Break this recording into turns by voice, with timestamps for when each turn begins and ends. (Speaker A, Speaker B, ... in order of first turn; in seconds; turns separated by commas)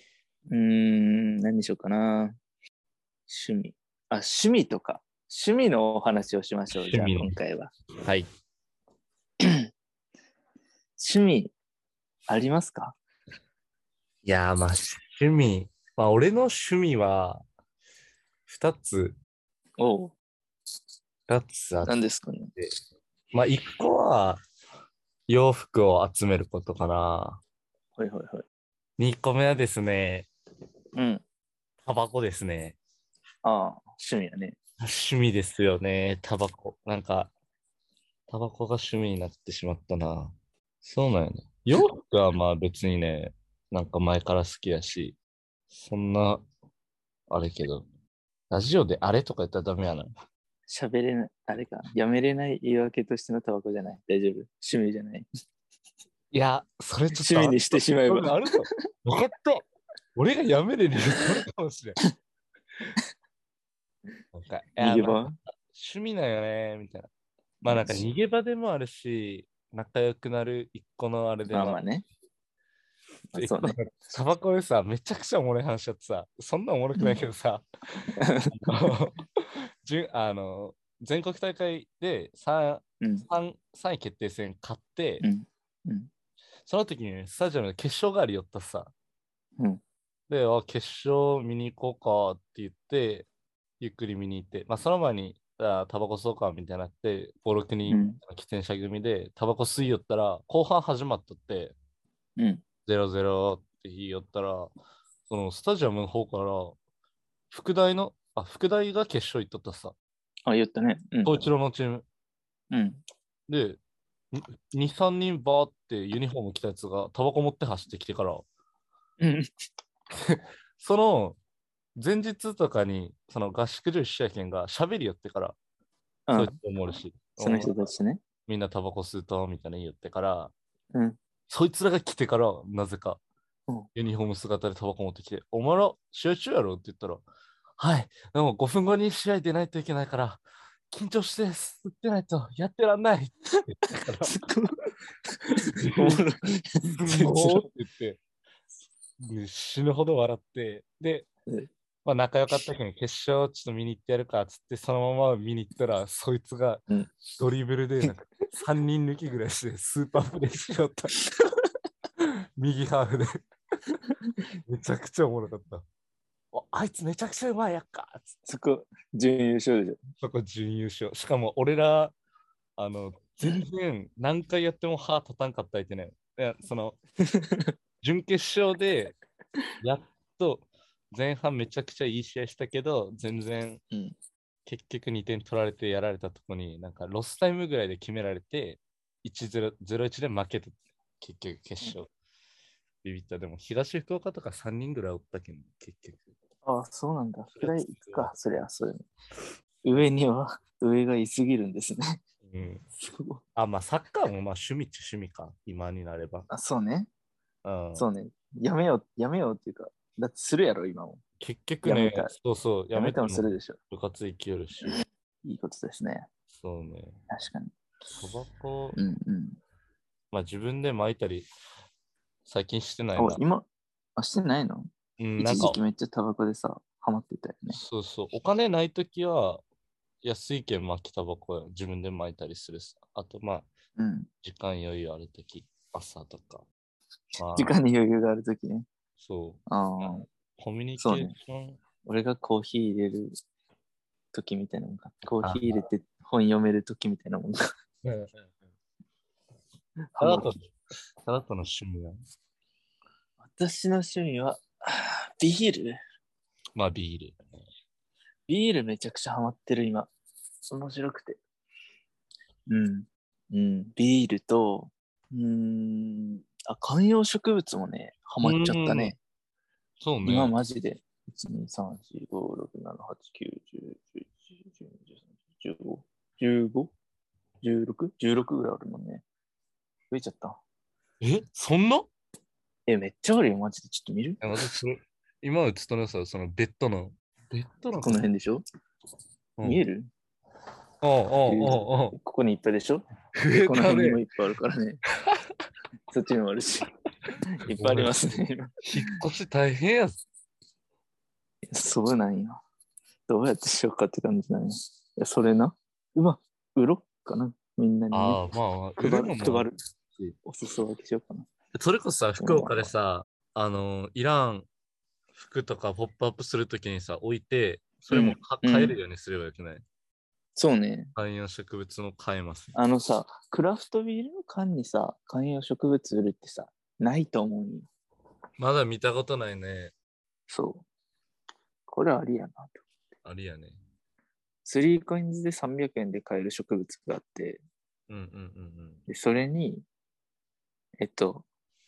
Speaker A: 0.5-2.3, Speaker A: 3.3-7.7, Speaker B: 6.7-7.3, Speaker A: 11.0-11.5, Speaker A: 12.3-13.0, Speaker B: 14.2-17.4, Speaker B: 18.5-19.1, Speaker A: 19.8-20.1, Speaker B: 21.3-22.0, Speaker A: 21.8-22.5, Speaker B: 23.3-24.4, Speaker B: 25.3-27.4, Speaker A: 27.9-28.4, Speaker B: 29.0-30.3, Speaker A: 30.9-31.2, Speaker B: 31.8-32.8, Speaker A: 33.4-34.6, Speaker B: 34.8-37.3, Speaker B: 38.3-45.2, Speaker B: 45.7-46.4, Speaker B: 47.3-47.8, Speaker B: 48.5-50.1, Speaker A: 50.7-55.3, Speaker B: 56.3-59.6, Speaker A: 57.1-58.3, Speaker B: 60.1-62.0, Speaker B: 64.3-67.1, Speaker A: 64.8-65.3, Speaker B: 67.6-71.8, Speaker A: 67.7-68.0, Speaker A: 71.5-72.0, Speaker A: 73.3-73.8, Speaker B: 73.3-77.6, Speaker A: 78.2-78.5, Speaker B: 78.5-79.2, Speaker B: 79.8-85.2, Speaker A: 83.0-83.2, Speaker A: 85.2-86.1, Speaker B: 86.7-88.9, Speaker B: 90.3-93.3, Speaker B: 93.8-101.7, Speaker A: 97.9-98.2, Speaker A: 102.4-102.6, Speaker B: 102.8-104.7, Speaker B: 105.3-106.8, Speaker B: 107.5-109.9, Speaker A: 110.5-111.4, Speaker B: 111.2-112.0, Speaker A: 112.7-113.0, Speaker B: 113.5-113.8, Speaker B: 114.3-118.4, Speaker A: 119.2-119.5, Speaker B: 120.1-121.4, Speaker B: 122.0-125.5, Speaker A: 126.3-126.5, Speaker B: 126.3-127.7, Speaker A: 127.4-128.2, Speaker B: 128.5-130.5, Speaker B: 131.5-133.2, Speaker B: 133.9-137.2, Speaker B: 137.8-144.3, Speaker A: 144.2-144.7, Speaker A: 145.5-147.6, Speaker B: 145.8-146.2, Speaker B: 147.0-148.2, Speaker B: 149.2-151.3, Speaker B: 152.0-156.8, Speaker B: 157.3-161.2, Speaker B: 162.2-163.2, Speaker B: 164.7-165.8, Speaker B: 166.5-168.3, Speaker A: 168.5-170.0, Speaker B: 170.2-172.1, Speaker B: 172.8-177.0, Speaker A: 177.3-177.6, Speaker B: 178.0-179.1, Speaker B: 179.8-183.8, Speaker B: 184.7-192.1, Speaker B: 193.0-196.3, Speaker A: 196.6-199.1, Speaker B: 197.6-198.3, Speaker A: 199.8-202.2, Speaker B: 202.4-202.8, Speaker A: 203.0-203.4, Speaker B: 203.6-206.5, Speaker A: 206.5-207.1, Speaker B: 207.6-208.1, Speaker A: 207.9-211.2, Speaker B: 211.4-215.0, Speaker A: 211.8-212.3, Speaker A: 212.9-213.8, Speaker A: 214.8-216.3, Speaker B: 216.5-217.2, Speaker A: 217.3-217.7, Speaker B: 218.2-219.0, Speaker A: 218.9-219.6, Speaker B: 220.3-221.5, Speaker B: 222.4-223.4, Speaker A: 223.2-227.8, Speaker B: 225.2-225.8, Speaker B: 227.7-229.6, Speaker B: 230.2-233.7, Speaker A: 233.9-234.3, Speaker B: 234.4-236.7, Speaker B: 237.4-237.7, Speaker A: 237.5-238.9, Speaker B: 239.2-241.8, Speaker A: 239.7-240.2, Speaker A: 241.0-241.3, Speaker A: 242.0-243.3, Speaker A: 244.3-247.6, Speaker B: 245.4-245.7, Speaker B: 248.0-248.5, Speaker A: 250.1-250.5, Speaker B: 250.2-250.7, Speaker B: 251.2-252.2, Speaker A: 253.4-256.0, Speaker B: 256.8-257.4, Speaker A: 258.5-260.1, Speaker A: 260.7-261.4, Speaker A: 262.7-269.2, Speaker B: 268.4-269.1, Speaker B: 270.0-270.5, Speaker A: 270.2-276.9, Speaker A: 277.6-279.2, Speaker A: 280.1-280.6, Speaker B: 281.2-282.1, Speaker A: 282.9-284.4, Speaker B: 284.4-288.2, Speaker A: 288.0-288.6, Speaker A: 289.6-290.1, Speaker B: 291.0-292.1, Speaker A: 291.5-293.0, Speaker B: 293.4-294.2, Speaker A: 293.6-295.0, Speaker A: 296.1-296.9, Speaker A: 297.6-298.8, Speaker B: 297.7-300.2, Speaker A: 301.7-302.6, Speaker A: 303.3-308.4, Speaker B: 308.1-310.4, Speaker A: 309.0-309.8, Speaker A: 310.4-311.4, Speaker B: 311.7-314.7, Speaker A: 312.4-312.9, Speaker B: 315.3-319.8, Speaker A: 318.1-319.0, Speaker A: 320.6-321.1, Speaker B: 321.1-322.7, Speaker A: 322.7-327.9, Speaker B: 328.6-329.9, Speaker A: 330.5-330.9, Speaker A: 331.9-332.8, Speaker B: 333.2-333.8, Speaker A: 334.6-337.6, Speaker B: 338.1-339.0, Speaker A: 339.1-339.9, Speaker A: 341.0-341.4